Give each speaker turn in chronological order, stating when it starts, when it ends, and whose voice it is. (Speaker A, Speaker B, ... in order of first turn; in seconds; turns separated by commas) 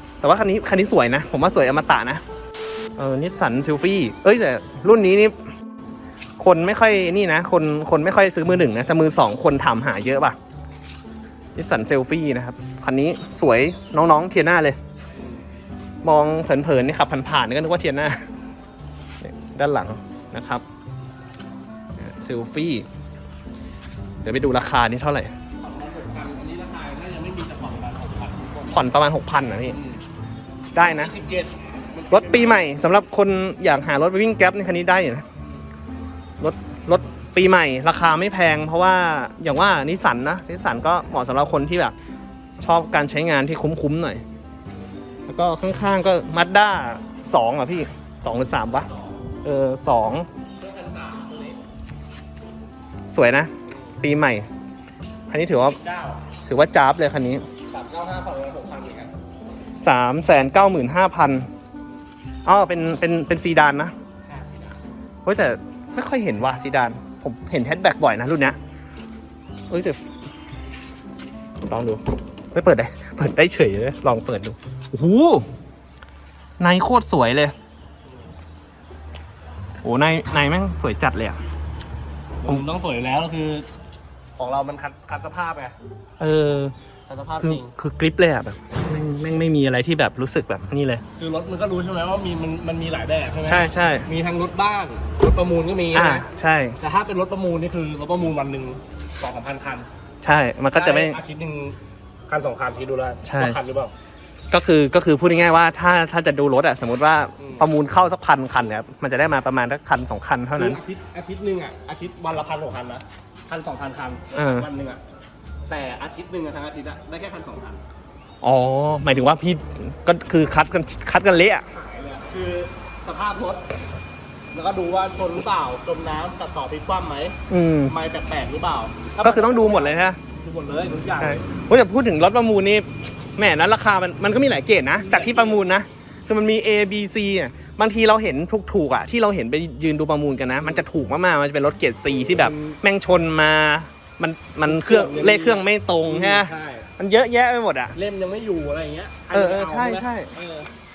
Speaker A: 0.2-2.2, Speaker A: 3.0-5.4, Speaker A: 6.4-10.4, Speaker A: 11.5-14.8, Speaker A: 16.0-18.2, Speaker A: 19.2-20.6, Speaker A: 22.0-22.9, Speaker A: 24.2-25.3, Speaker B: 25.6-28.8, Speaker A: 28.7-29.8, Speaker B: 29.7-30.0, Speaker A: 30.7-31.1, Speaker B: 30.8-32.7, Speaker A: 32.1-35.2, Speaker A: 36.4-41.9, Speaker A: 42.6-44.2, Speaker A: 45.3-48.9, Speaker B: 48.7-49.1, Speaker A: 49.4-50.3, Speaker B: 50.6-51.6, Speaker A: 53.1-54.5, Speaker B: 53.7-53.9, Speaker A: 55.3-55.8, Speaker B: 55.8-56.2, Speaker A: 56.5-57.4, Speaker B: 57.7-59.1, Speaker A: 59.8-61.5, Speaker A: 62.4-63.9, Speaker B: 64.2-64.8, Speaker A: 65.2-68.6, Speaker A: 69.7-70.0, Speaker A: 71.6-72.0, Speaker A: 72.5-75.5, Speaker A: 76.6-77.5, Speaker A: 79.8-81.4, Speaker B: 82.4-83.7, Speaker B: 84.4-85.8, Speaker A: 86.2-86.7, Speaker B: 87.1-87.7, Speaker A: 87.4-91.0, Speaker B: 91.2-96.2, Speaker A: 93.4-94.1, Speaker A: 95.9-96.8, Speaker B: 96.8-99.9, Speaker A: 100.2-101.2, Speaker B: 100.7-103.9, Speaker A: 103.2-103.6, Speaker A: 104.5-110.8, Speaker B: 107.4-107.7, Speaker B: 110.5-115.0, Speaker A: 114.3-114.7, Speaker B: 115.7-117.8, Speaker A: 118.4-121.7, Speaker B: 121.7-123.7, Speaker B: 124.5-131.4, Speaker A: 127.5-127.9, Speaker A: 129.2-130.2, Speaker A: 131.1-147.9, Speaker B: 134.9-135.6, Speaker B: 142.3-142.8, Speaker B: 144.6-146.9, Speaker B: 147.9-150.7, Speaker A: 149.3-150.3